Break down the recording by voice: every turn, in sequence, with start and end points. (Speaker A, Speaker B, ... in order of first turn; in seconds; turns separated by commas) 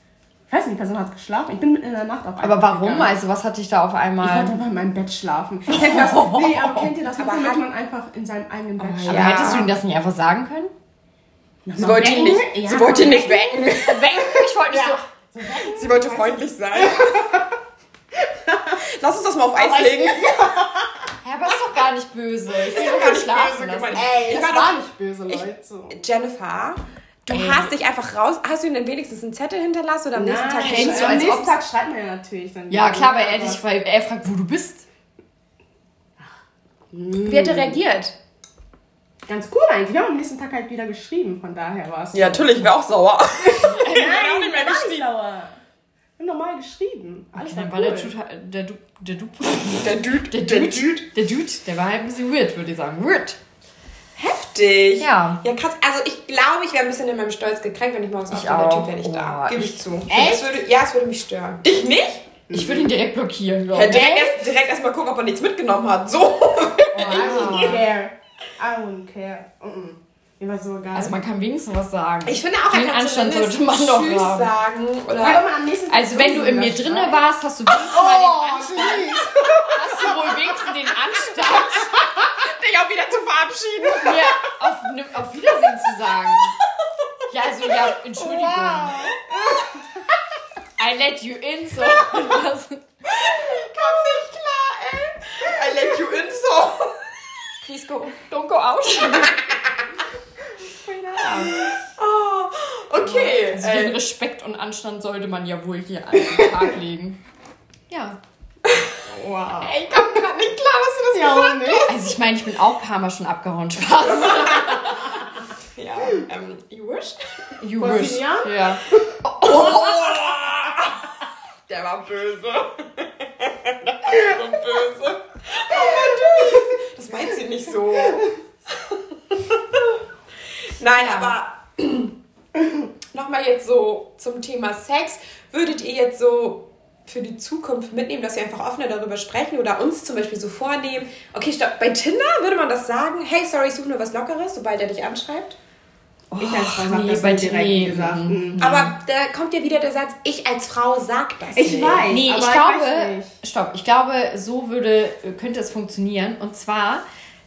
Speaker A: 0.5-3.1, Speaker B: 2.4-4.6, Speaker A: 4.2-9.7, Speaker B: 5.7-6.9, Speaker C: 7.2-7.7, Speaker C: 8.8-9.7, Speaker B: 9.1-10.7, Speaker A: 11.6-13.6, Speaker C: 11.8-14.3, Speaker B: 12.0-12.4, Speaker B: 13.6-15.0, Speaker A: 14.7-17.6, Speaker C: 15.6-17.4, Speaker A: 18.1-18.8, Speaker C: 18.8-20.5, Speaker A: 19.6-21.1, Speaker B: 21.2-24.2, Speaker C: 22.6-31.4, Speaker A: 23.9-26.0, Speaker B: 27.3-27.7, Speaker A: 30.1-33.6, Speaker B: 30.6-31.5, Speaker B: 32.7-34.9, Speaker A: 36.9-37.8, Speaker C: 37.2-38.1, Speaker A: 39.3-42.7, Speaker C: 42.1-45.1, Speaker A: 43.4-45.6, Speaker B: 43.6-44.2, Speaker A: 46.2-48.1, Speaker B: 47.3-53.4, Speaker C: 49.7-51.0, Speaker C: 54.1-62.3, Speaker B: 55.0-55.4, Speaker B: 58.3-60.3, Speaker A: 60.1-60.5, Speaker A: 62.5-62.9, Speaker B: 62.5-64.2, Speaker C: 63.7-67.8, Speaker A: 63.9-64.3, Speaker B: 66.9-67.8, Speaker A: 67.0-71.2, Speaker B: 70.9-74.5, Speaker C: 72.2-75.5, Speaker A: 75.2-77.2, Speaker B: 75.9-82.2, Speaker A: 77.7-80.3, Speaker C: 81.4-84.3, Speaker B: 84.0-86.6, Speaker B: 87.3-89.1, Speaker A: 88.2-90.0, Speaker B: 90.8-92.8, Speaker C: 93.0-97.0, Speaker B: 97.6-99.4, Speaker C: 99.1-99.6, Speaker A: 100.9-101.7, Speaker B: 101.1-101.5, Speaker C: 101.2-104.0, Speaker B: 103.0-107.2, Speaker A: 106.4-106.6, Speaker B: 107.9-108.2, Speaker C: 108.7-108.9, Speaker A: 109.0-110.0, Speaker C: 109.6-112.0, Speaker A: 111.1-111.9, Speaker B: 111.9-115.1, Speaker C: 114.2-115.1, Speaker C: 115.8-117.2, Speaker B: 117.6-120.2, Speaker A: 117.8-118.6, Speaker C: 119.4-121.1, Speaker C: 121.7-129.9, Speaker C: 130.8-132.1, Speaker B: 130.9-131.3, Speaker C: 133.1-145.6, Speaker B: 146.3-148.9, Speaker A: 146.4-148.6, Speaker C: 148.6-152.1, Speaker A: 151.5-153.3, Speaker B: 152.1-157.0